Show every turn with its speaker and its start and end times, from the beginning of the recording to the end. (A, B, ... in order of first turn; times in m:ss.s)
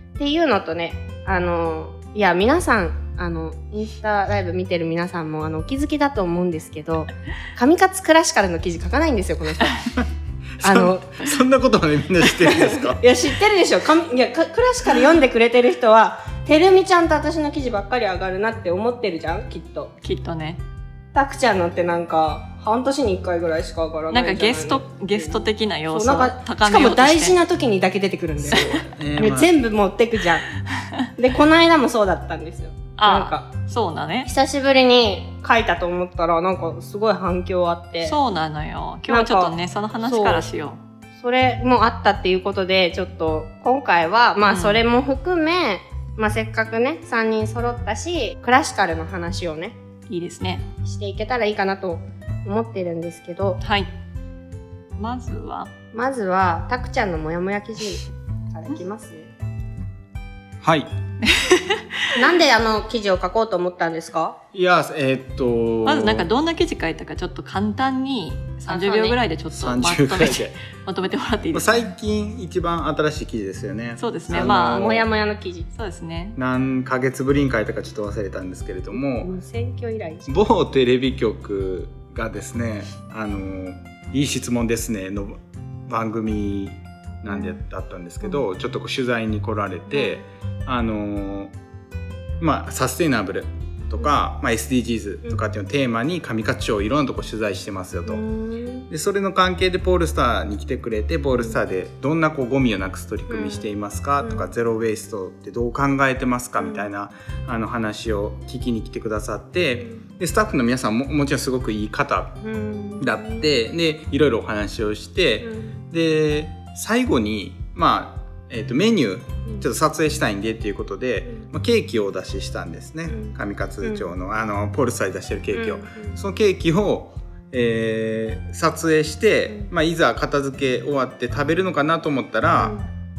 0:00.2-0:09.8 A
0:10.6-0:13.0 B
0:10.6-0:11.1 A
0:12.4-0:19.9 A
0:20.0-0:20.6 C
0:21.1-0:30.5 A
0:24.1-0:27.4 C
0:28.9-0:29.5 B
0:31.2-0:33.5 A
0:33.0-0:34.3 C
0:34.2-0:38.2 A
0:38.0-0:40.8 C
0:39.1-0:39.5 A
0:40.0-0:40.5 A
0:41.2-0:49.7 A
0:44.4-0:44.8 C
0:50.1-0:50.7 C
0:50.8-0:53.6 A
0:53.6-0:53.9 C
0:55.0-0:55.7 C
0:55.9-0:59.3 A
1:00.6-1:00.9 B
1:01.2-1:02.2 C
1:02.1-1:04.4 A
1:04.5-1:06.3 B
1:05.8-1:11.9 C
1:08.7-1:09.2 A
1:09.5-1:10.5 B
1:11.5-1:15.0 B
1:14.0-1:14.9 C
1:14.3-1:15.7 A
1:15.7-1:16.4 C
1:16.4-1:19.3 B
1:19.2-1:20.3 A
1:20.3-1:31.5 B
1:27.3-1:27.6 A
1:29.9-1:30.2 A
1:32.4-1:38.2 B
1:38.1-1:38.9 A
1:38.9-1:52.4 B
1:41.3-1:41.6 A
1:43.3-1:43.7 A
1:44.2-1:44.5 A
1:46.6-1:46.9 A
1:52.4-1:53.5 A
1:53.0-2:12.8 B
1:55.4-1:55.8 A
2:03.1-2:04.1 A
2:05.5-2:06.2 A
2:12.6-2:12.9 A